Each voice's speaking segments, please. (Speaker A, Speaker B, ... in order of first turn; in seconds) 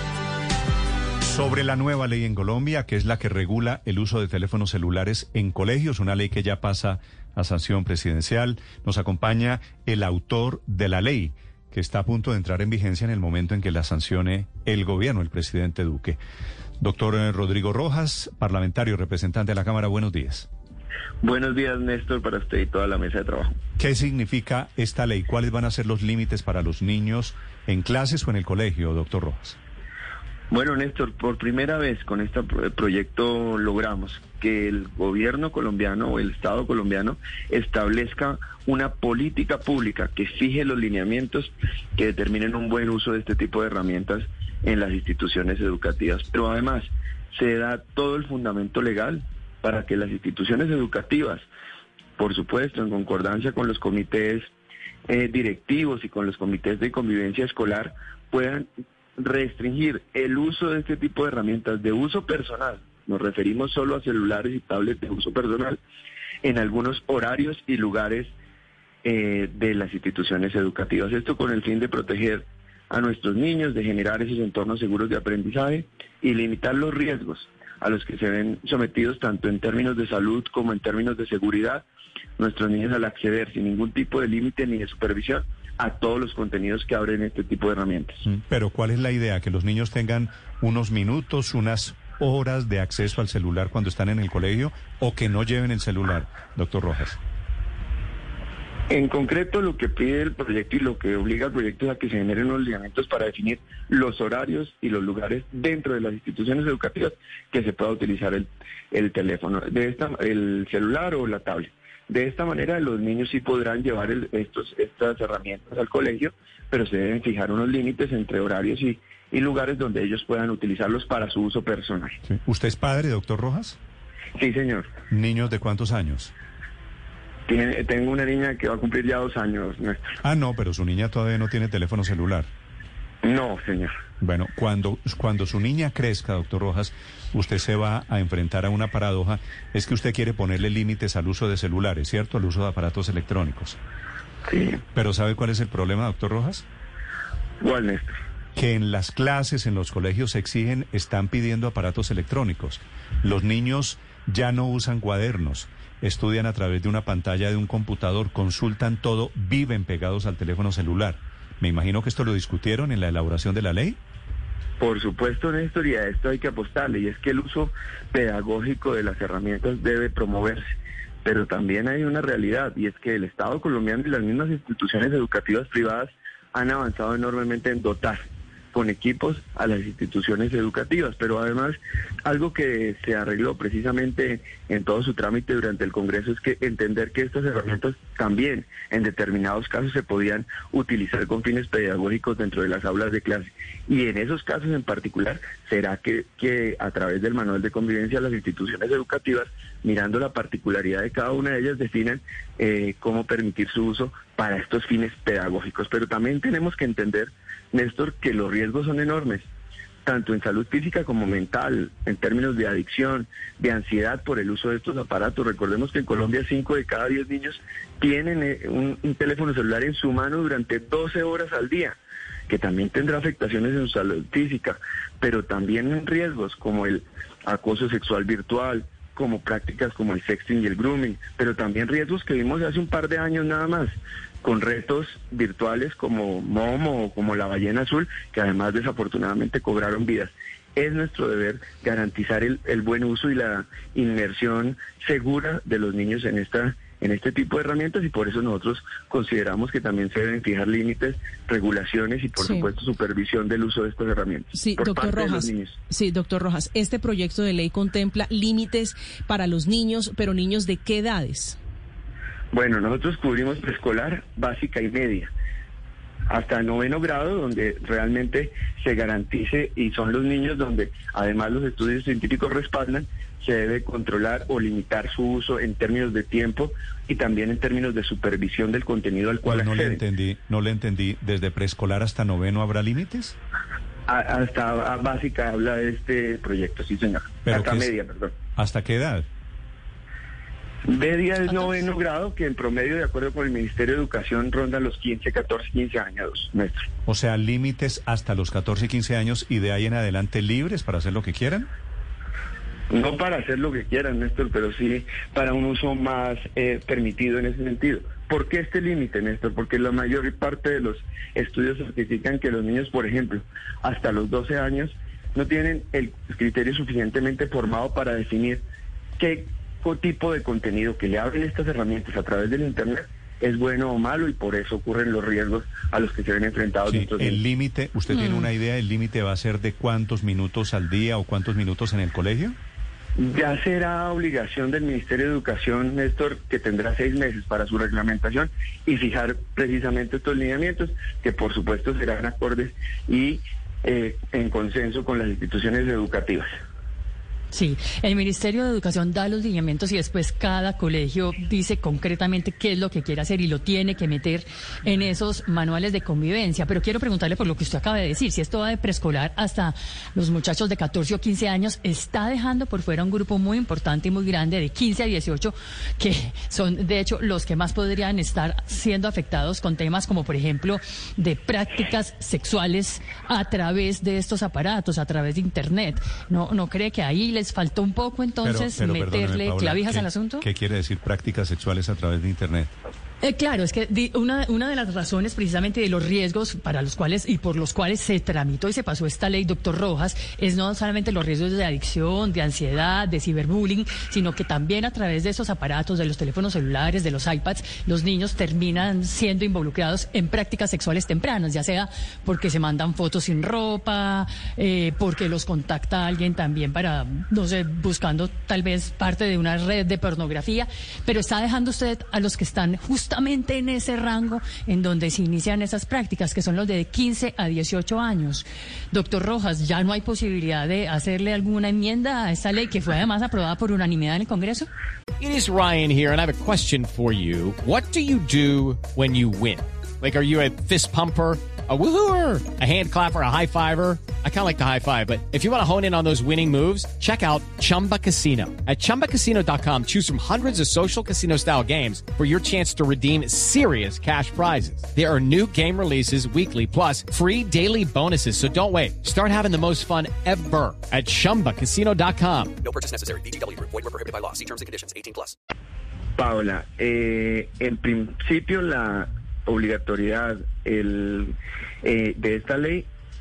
Speaker A: 1.2-16.2, 16.8-20.5, 23.8-29.6, 88.3-97.2, 122.3-123.8, 125.1-126.3, 130.2-132.5, 134.2-143.8, 144.9-146.6, 148.6-164.0, 279.4-283.3, 287.4-287.9, 288.6-289.2, 297.1-301.7, 326.9-332.6, 378.4-382.7
Speaker B: 21.2-23.6, 30.5-51.4, 52.2-54.5, 55.1-65.8, 66.4-68.3, 69.0-81.8, 82.4-88.2, 98.9-122.2, 124.4-124.9, 127.5-130.2, 133.2-133.9, 144.4-144.8, 147.6-148.1, 164.8-170.6, 171.2-209.4, 210.0-222.0, 222.5-255.8, 262.5-265.3, 266.3-280.0, 284.1-288.3, 290.9-296.8, 302.9-318.6, 319.2-327.4, 333.2-346.5, 456.1-462.9
Speaker C: 252.4-252.7, 254.5-261.6
Speaker D: 347.5-380.5, 383.2-424.7
Speaker E: 425.2-452.5
Speaker F: 452.6-455.3